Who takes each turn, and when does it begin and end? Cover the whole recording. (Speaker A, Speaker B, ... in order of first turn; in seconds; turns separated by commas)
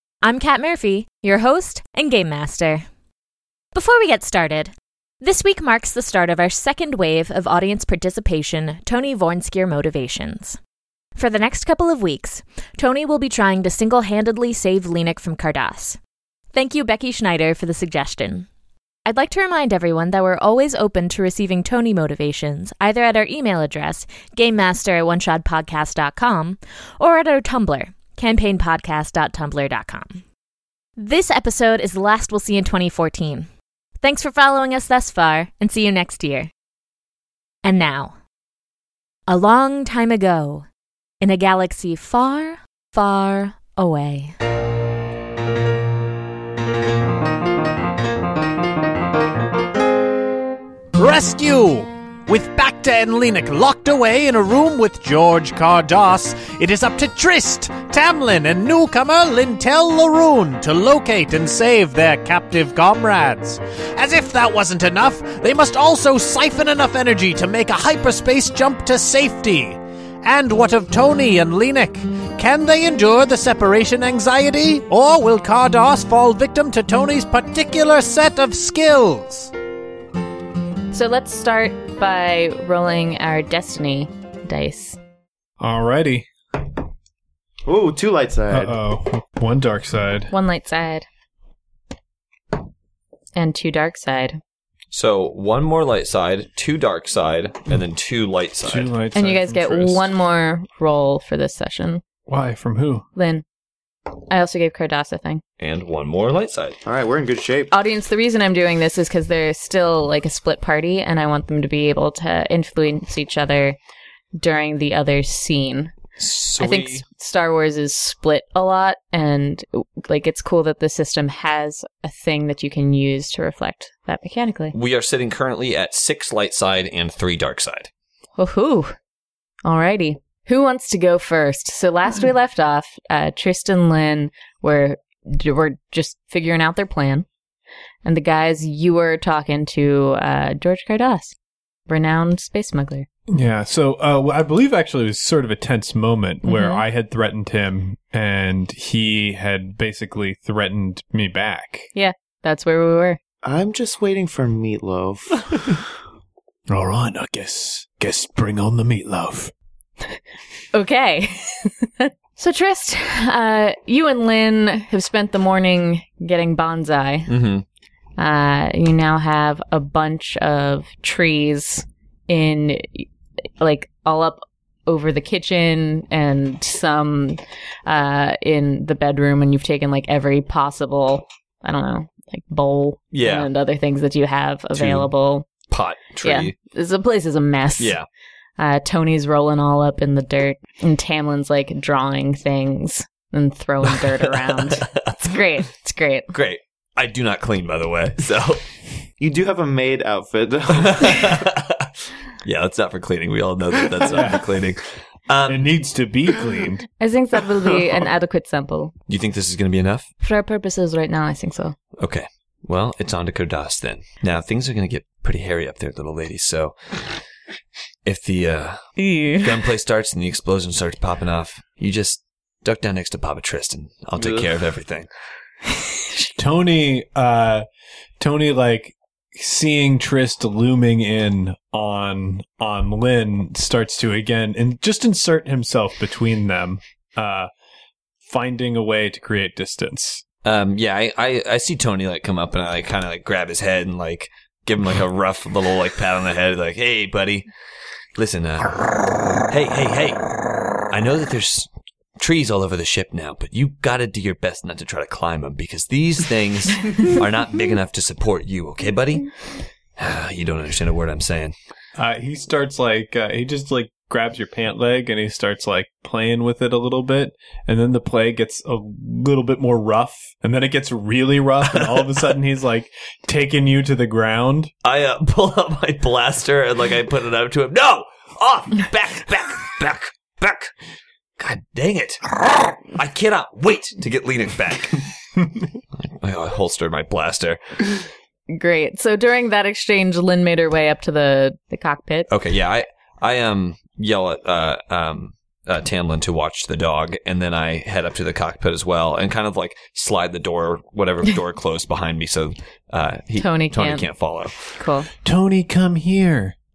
Speaker A: 0.2-2.9, Speaker A: 3.7-10.6, Speaker A: 11.2-16.0, Speaker A: 16.5-18.5, Speaker A: 19.0-30.2, Speaker A: 31.0-33.5, Speaker A: 34.0-36.5, Speaker A: 37.6-38.1, Speaker A: 39.3-40.6, Speaker A: 41.2-44.3, Speaker B: 50.9-79.5, Speaker C: 80.9-85.0, Speaker D: 85.6-86.3, Speaker E: 87.7-88.8, Speaker D: 88.5-90.3, Speaker C: 90.3-91.0, Speaker C: 93.3-94.4, Speaker F: 94.9-98.9, Speaker D: 98.6-100.0, Speaker C: 99.1-102.0, Speaker D: 102.3-103.0, Speaker C: 103.2-103.4, Speaker C: 104.3-105.4, Speaker F: 105.6-106.8, Speaker E: 106.8-107.7, Speaker C: 107.7-113.8, Speaker C: 114.3-116.0, Speaker F: 116.2-117.0, Speaker C: 116.6-124.7, Speaker F: 124.7-127.9, Speaker C: 128.4-128.9, Speaker C: 129.6-137.2, Speaker C: 138.0-141.3, Speaker C: 141.9-143.1, Speaker D: 143.3-151.9, Speaker C: 146.4-146.8, Speaker C: 151.9-153.2, Speaker E: 153.4-155.7, Speaker D: 156.7-159.5, Speaker C: 160.7-167.3, Speaker F: 167.3-167.6, Speaker C: 168.2-185.5, Speaker F: 183.1-183.5, Speaker F: 184.7-185.1, Speaker F: 185.7-186.5, Speaker C: 186.2-187.9, Speaker F: 187.8-188.1, Speaker C: 188.6-196.3, Speaker F: 193.9-195.1, Speaker F: 196.3-198.6, Speaker E: 199.2-201.5, Speaker F: 200.8-201.9, Speaker F: 202.4-205.7, Speaker D: 204.0-204.5, Speaker D: 205.4-206.9, Speaker C: 207.0-208.9, Speaker F: 209.1-210.1, Speaker C: 210.2-211.8, Speaker F: 212.0-216.7, Speaker F: 218.0-225.1, Speaker C: 219.0-219.6, Speaker D: 226.3-227.7, Speaker D: 228.2-237.5, Speaker D: 238.2-240.2, Speaker F: 240.4-247.5, Speaker F: 248.2-250.2, Speaker F: 250.9-259.3, Speaker F: 260.0-261.5, Speaker D: 261.9-274.7, Speaker F: 274.8-280.7, Speaker F: 281.4-285.0, Speaker F: 285.9-288.0, Speaker C: 288.5-292.3, Speaker F: 292.3-304.8, Speaker C: 303.4-304.1, Speaker C: 304.8-305.1, Speaker D: 305.2-306.5